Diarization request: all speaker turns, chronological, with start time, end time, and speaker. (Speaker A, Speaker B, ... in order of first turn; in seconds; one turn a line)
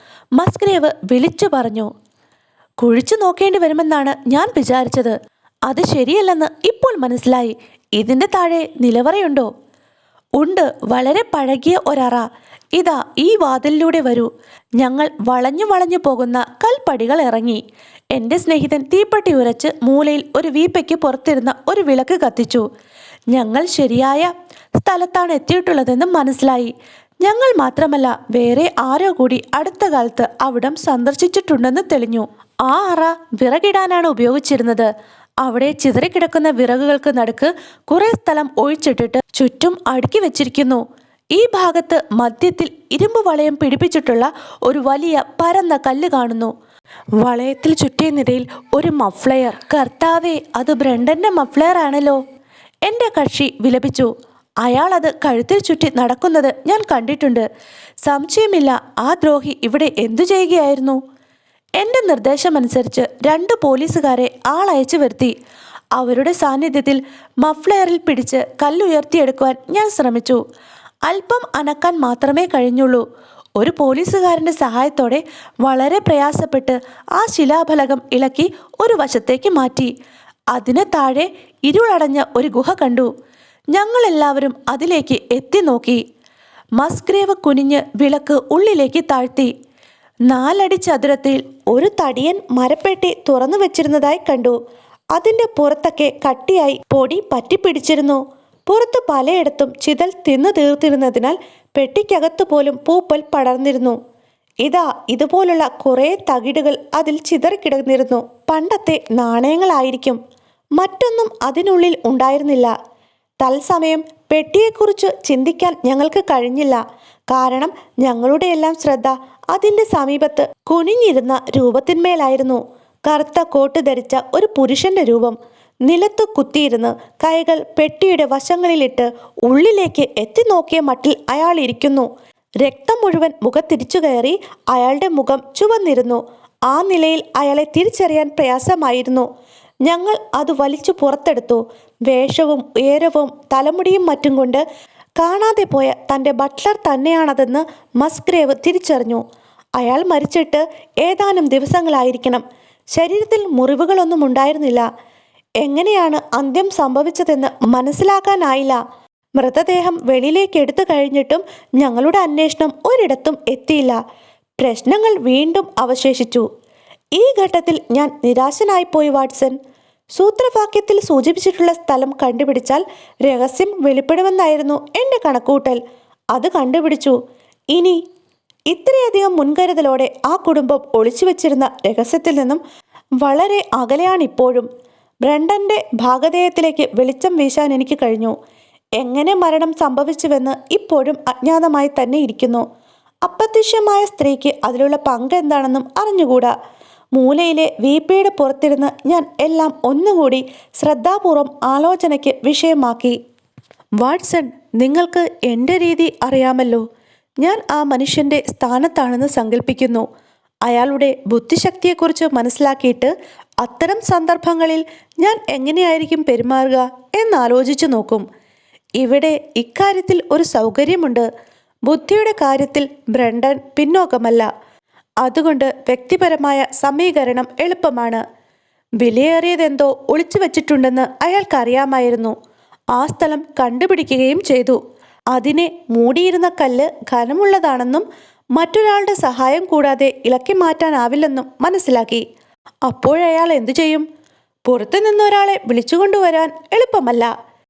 Speaker A: 0.4-1.9
Speaker A: 2.8-5.2
Speaker A: 5.7-9.5
Speaker A: 10.4-17.6
Speaker A: 18.1-22.6
Speaker A: 23.3-34.9
Speaker A: 35.4-40.8
Speaker A: 41.4-46.5
Speaker A: 47.2-52.2
Speaker A: 52.9-54.1
Speaker A: 54.6-57.5
Speaker A: 58.0-61.0
Speaker A: 61.8-65.3
Speaker A: 66.0-70.4
Speaker A: 71.1-73.0
Speaker A: 73.6-79.9
Speaker A: 80.5-83.1
Speaker A: 83.7-86.0
Speaker A: 86.8-89.5
Speaker A: 90.3-94.6
Speaker A: 95.2-104.0
Speaker A: 104.6-110.2
Speaker A: 110.8-112.7
Speaker A: 113.4-132.1
Speaker A: 132.6-139.3
Speaker A: 139.9-144.6
Speaker A: 145.2-149.2
Speaker A: 149.8-152.4
Speaker A: 152.9-154.9
Speaker A: 155.6-158.8
Speaker A: 159.4-164.0
Speaker A: 164.6-166.5
Speaker A: 167.2-169.6
Speaker A: 170.2-175.8
Speaker A: 176.3-177.2
Speaker A: 177.7-178.0
Speaker A: 178.7-182.6
Speaker A: 183.2-184.7
Speaker A: 185.3-188.3
Speaker A: 189.0-192.7
Speaker A: 193.3-196.5
Speaker A: 197.2-203.2
Speaker A: 204.0-206.8
Speaker A: 207.4-210.1
Speaker A: 210.7-218.2
Speaker A: 219.0-221.3
Speaker A: 221.9-224.5
Speaker A: 225.2-228.2
Speaker A: 229.0-232.3
Speaker A: 232.9-234.8
Speaker A: 235.3-242.2
Speaker A: 242.9-244.1
Speaker A: 244.7-247.3